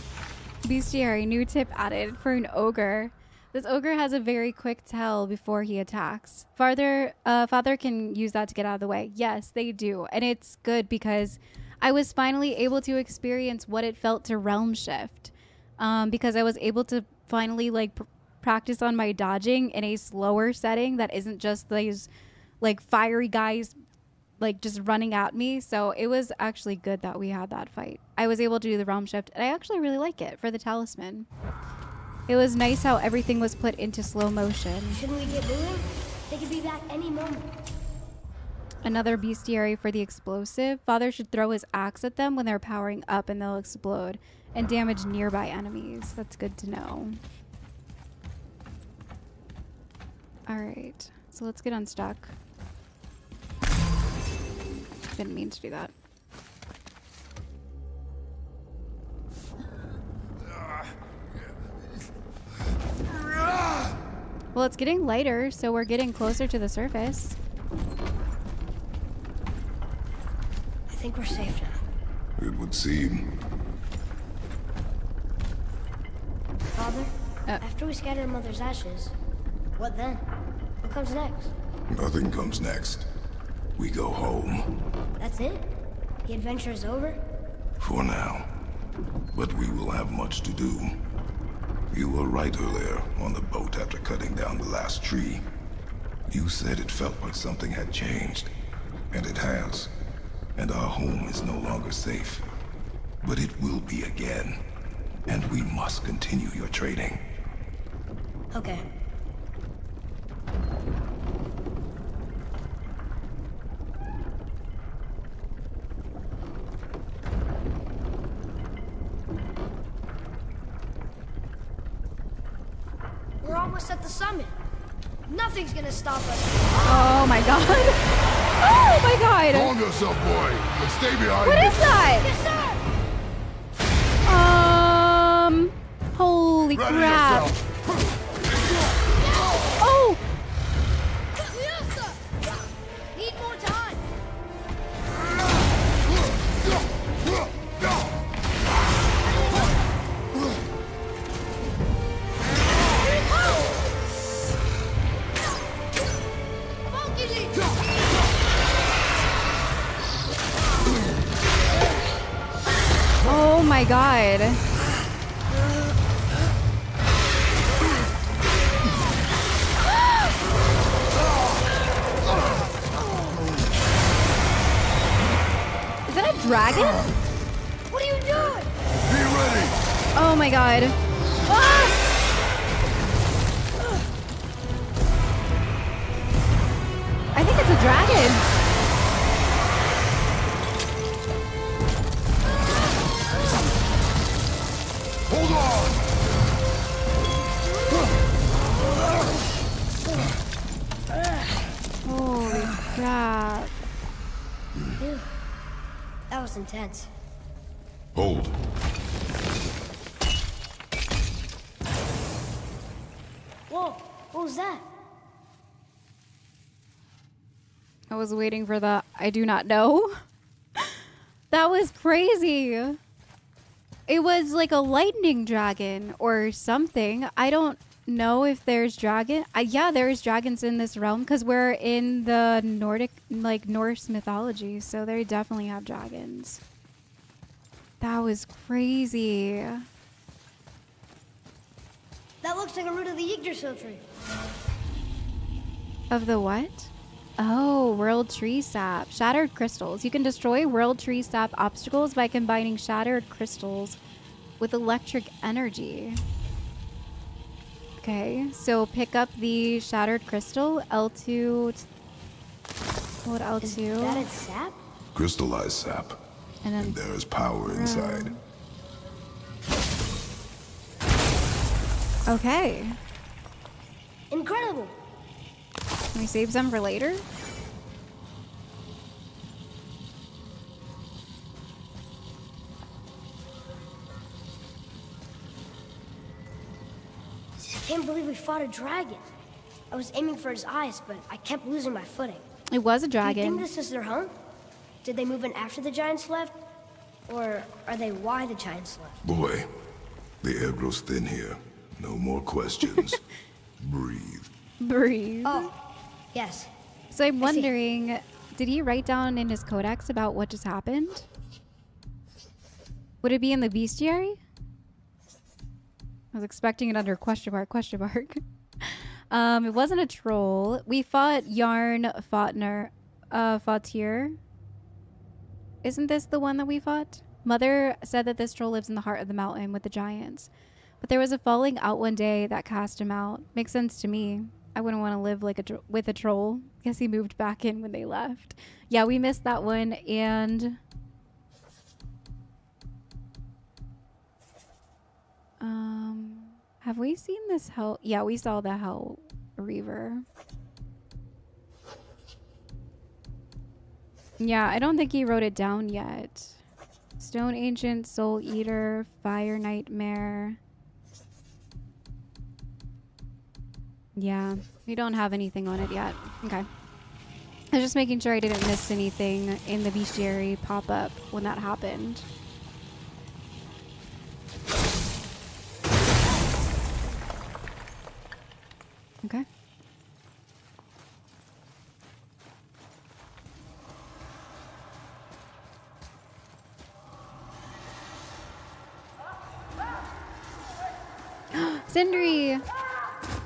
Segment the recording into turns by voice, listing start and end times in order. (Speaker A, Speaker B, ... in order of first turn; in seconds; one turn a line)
Speaker A: 0.6-22.1
Speaker A: 22.6-23.8
Speaker A: 24.4-31.3
Speaker A: 32.3-35.0
Speaker B: 34.9-37.6
Speaker A: 38.8-47.2
Speaker A: 50.5-52.4
Speaker A: 55.2-55.9
Speaker A: 64.5-67.4
Speaker B: 70.9-71.8
Speaker C: 72.4-73.3
Speaker B: 76.8-79.1
Speaker B: 79.8-80.3
Speaker B: 80.8-81.5
Speaker C: 81.9-83.1
Speaker C: 83.8-84.7
Speaker B: 85.2-85.7
Speaker B: 86.3-87.2
Speaker C: 87.8-88.5
Speaker C: 89.3-91.0
Speaker C: 91.9-95.5
Speaker C: 96.3-98.5
Speaker C: 99.1-99.9
Speaker C: 100.6-102.5
Speaker C: 103.2-104.6
Speaker C: 105.3-107.2
Speaker B: 108.5-108.8
Speaker B: 123.4-124.5
Speaker B: 125.3-127.0
Speaker A: 126.8-129.7
Speaker C: 129.5-131.9
Speaker A: 131.4-132.3
Speaker B: 132.1-132.8
Speaker A: 134.2-137.6
Speaker C: 136.8-137.6
Speaker B: 139.2-139.7
Speaker A: 139.8-140.2
Speaker B: 141.4-142.2
Speaker B: 143.1-144.0
Speaker B: 153.0-153.7
Speaker B: 156.9-157.7
Speaker A: 163.2-164.6
Speaker A: 176.1-177.1
Speaker B: 177.9-178.7
Speaker C: 179.1-179.8
Speaker A: 180.2-181.0
Speaker B: 181.5-182.0
Speaker A: 187.3-188.4
Speaker A: 202.1-203.7
Speaker B: 205.0-205.3
Speaker B: 206.3-207.1
Speaker C: 208.2-208.6
Speaker B: 213.7-214.8
Speaker A: 218.1-220.2
Speaker A: 220.8-223.0
Speaker A: 224.1-236.6
Speaker A: 238.0-239.9
Speaker B: 242.4-244.0
Speaker A: 246.1-254.0
Speaker A: 254.6-256.2
Speaker A: 258.0-261.9
Speaker A: 263.3-264.3
Speaker B: 263.6-264.8
Speaker C: 265.1-266.2
Speaker A: 266.6-267.0
Speaker C: 266.8-268.3
Speaker A: 267.6-268.4
Speaker A: 272.3-273.0
Speaker B: 274.3-274.9
Speaker A: 276.1-277.2
Speaker B: 287.7-289.3
Speaker B: 289.9-292.4
Speaker A: 292.7-293.7
Speaker B: 293.2-294.4
Speaker B: 295.0-296.6
Speaker B: 297.3-299.2
Speaker C: 299.2-299.7
Speaker C: 300.4-303.2
Speaker C: 303.8-304.5
Speaker A: 304.8-305.7
Speaker B: 305.4-305.7
Speaker B: 306.3-306.7
Speaker A: 307.1-311.3
Speaker B: 307.4-307.7
Speaker A: 313.2-314.4
Speaker A: 316.3-324.4
Speaker A: 325.8-330.5
Speaker A: 331.0-340.8
Speaker A: 345.6-350.2
Speaker A: 354.4-356.6
Speaker A: 357.2-360.6
Speaker A: 364.2-366.7
Speaker A: 367.7-372.2
Speaker A: 391.5-392.6